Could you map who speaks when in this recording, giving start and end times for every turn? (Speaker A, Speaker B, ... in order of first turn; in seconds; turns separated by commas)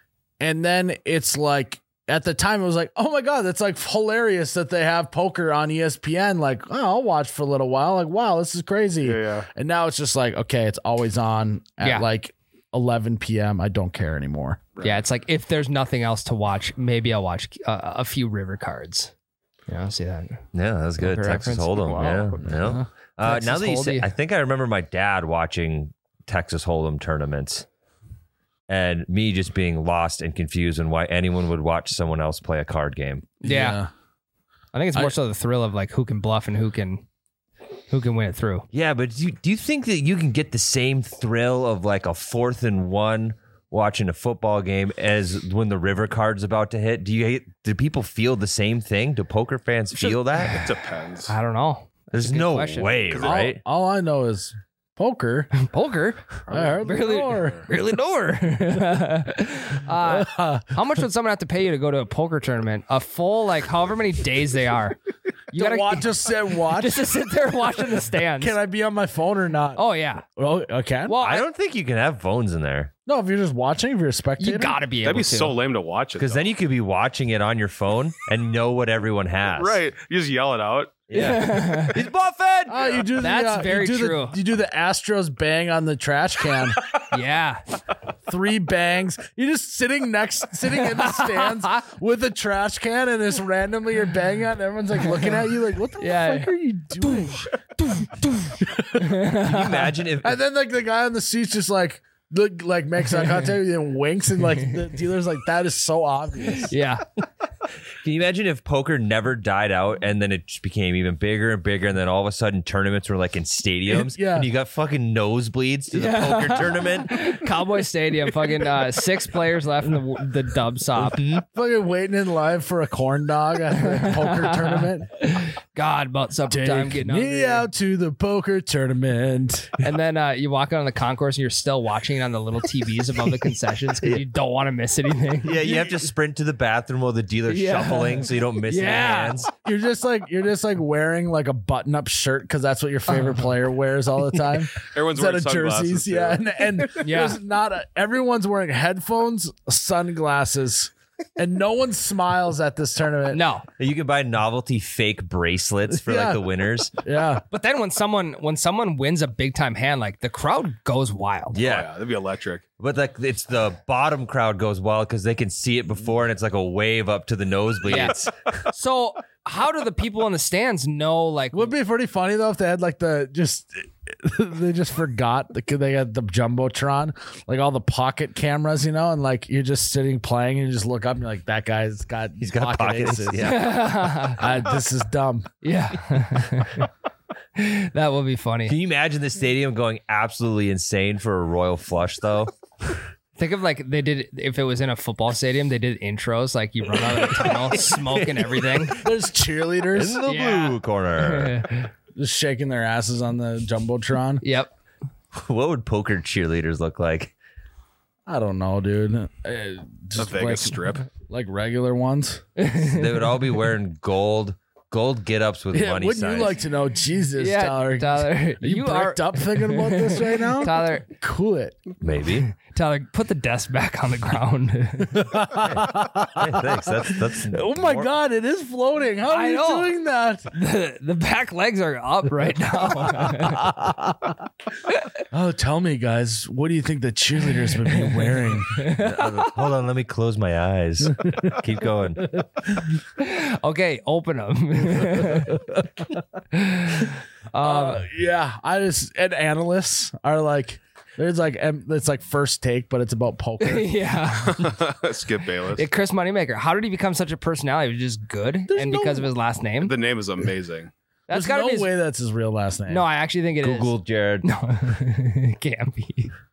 Speaker A: 0.4-14.6, Speaker B: 9.0-9.5, Speaker B: 14.8-15.0, Speaker C: 14.8-19.1, Speaker C: 19.7-20.4, Speaker D: 20.5-27.6, Speaker C: 21.0-22.4, Speaker B: 21.9-22.4, Speaker C: 23.2-24.1, Speaker D: 28.7-33.3, Speaker C: 33.4-33.8, Speaker A: 33.4-33.9, Speaker C: 34.7-37.0, Speaker C: 37.9-38.6, Speaker D: 38.7-50.7, Speaker C: 50.0-50.7, Speaker B: 50.6-51.3, Speaker C: 51.3-53.0, Speaker D: 52.1-53.6, Speaker A: 53.2-55.5, Speaker C: 55.6-65.0, Speaker B: 56.5-57.6, Speaker A: 56.5-57.6, Speaker A: 60.0-60.7, Speaker A: 65.5-67.1, Speaker C: 65.5-68.5, Speaker A: 68.4-69.8, Speaker C: 69.7-70.2, Speaker A: 70.3-71.1, Speaker C: 71.0-71.5, Speaker D: 71.2-72.9, Speaker A: 73.0-74.7, Speaker C: 74.4-75.6, Speaker B: 75.0-76.5, Speaker D: 76.2-79.8, Speaker B: 79.5-81.0, Speaker D: 81.1-83.0, Speaker C: 81.1-82.0, Speaker A: 82.7-86.8, Speaker C: 83.2-84.3, Speaker C: 87.1-87.6, Speaker A: 88.3-97.5, Speaker C: 90.7-91.8, Speaker C: 95.0-100.0, Speaker A: 98.7-99.1, Speaker D: 99.3-100.3, Speaker A: 100.2-106.7, Speaker C: 103.1-103.5, Speaker C: 104.5-104.9, Speaker C: 106.5-107.0, Speaker D: 108.0-117.3, Speaker A: 113.9-114.5, Speaker C: 115.9-121.2, Speaker D: 120.9-121.4, Speaker A: 121.5-125.1, Speaker C: 123.7-127.7, Speaker A: 126.5-129.8, Speaker C: 129.8-135.6, Speaker D: 135.4-139.5, Speaker C: 137.5-139.5, Speaker A: 139.6-153.4, Speaker C: 143.2-143.4, Speaker B: 144.9-146.4, Speaker C: 147.0-147.4, Speaker C: 153.3-153.7, Speaker D: 153.8-156.9, Speaker A: 155.9-156.4, Speaker A: 157.0-157.4, Speaker C: 157.5-161.6, Speaker D: 161.5-161.9, Speaker B: 161.6-162.6, Speaker D: 162.8-168.5, Speaker C: 167.8-171.7, Speaker A: 171.5-183.7, Speaker D: 182.4-183.9, Speaker C: 183.4-184.5, Speaker A: 184.3-185.5, Speaker C: 185.6-186.9, Speaker C: 187.6-188.8, Speaker D: 188.7-192.5, Speaker C: 193.4-199.0, Speaker D: 197.0-199.0, Speaker A: 199.0-200.2, Speaker D: 199.9-201.6, Speaker C: 200.2-201.9, Speaker A: 202.2-204.4, Speaker C: 204.4-204.7, Speaker D: 205.3-207.3, Speaker A: 208.3-212.4, Speaker B: 210.2-211.1, Speaker C: 212.6-213.6, Speaker D: 212.8-216.6, Speaker A: 215.7-221.8, Speaker C: 217.4-221.1, Speaker D: 222.0-222.5, Speaker C: 222.4-225.3, Speaker A: 225.1-230.5, Speaker D: 225.6-228.1, Speaker C: 229.3-229.9, Speaker C: 230.5-233.7, Speaker A: 233.3-234.3, Speaker A: 235.3-238.8, Speaker C: 237.8-239.6, Speaker D: 239.0-242.3, Speaker A: 241.2-241.5, Speaker C: 243.2-245.6, Speaker A: 245.5-245.9, Speaker C: 246.5-248.1, Speaker A: 247.6-253.9, Speaker C: 253.6-254.8, Speaker B: 254.4-255.8, Speaker C: 255.7-260.0, Speaker A: 258.7-259.3, Speaker B: 259.8-260.9, Speaker C: 261.3-261.9, Speaker A: 261.3-263.0, Speaker C: 262.9-266.3, Speaker D: 263.6-264.4